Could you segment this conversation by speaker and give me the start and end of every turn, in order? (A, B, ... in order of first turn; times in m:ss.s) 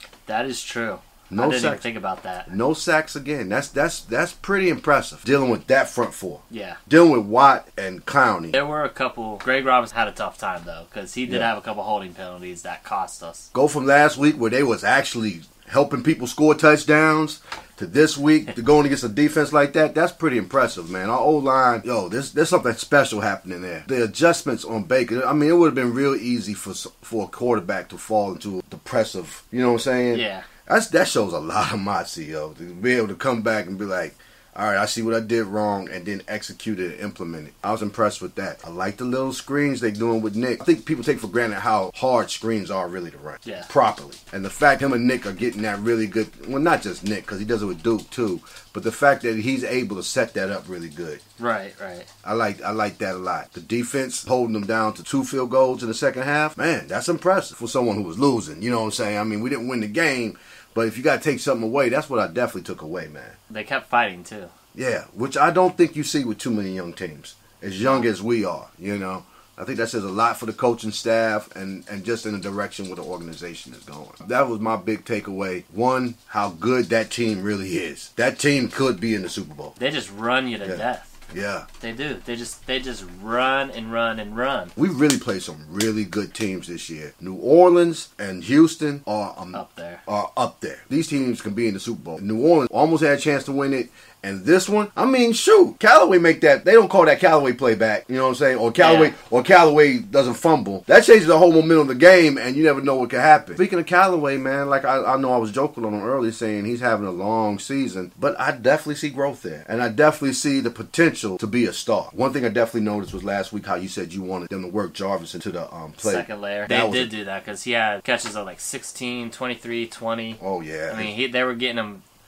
0:00.3-0:02.5 A
0:01.3-0:01.9 B
0:02.5-0:08.6 B
0:06.5-0:06.8 A
0:08.5-0:13.5 A
0:13.5-0:51.2 B
0:30.1-0:30.4 A
0:51.4-0:52.1 A
0:52.2-1:03.4 B
1:03.5-1:04.5 A
1:04.8-1:19.8 B
1:19.8-1:21.1 A
1:20.6-1:21.7 B
1:21.8-1:24.7 A
1:24.8-1:57.1 B
1:29.5-1:30.0 A
1:38.8-1:39.1 A
1:56.0-2:02.0 A
2:00.4-2:01.1 B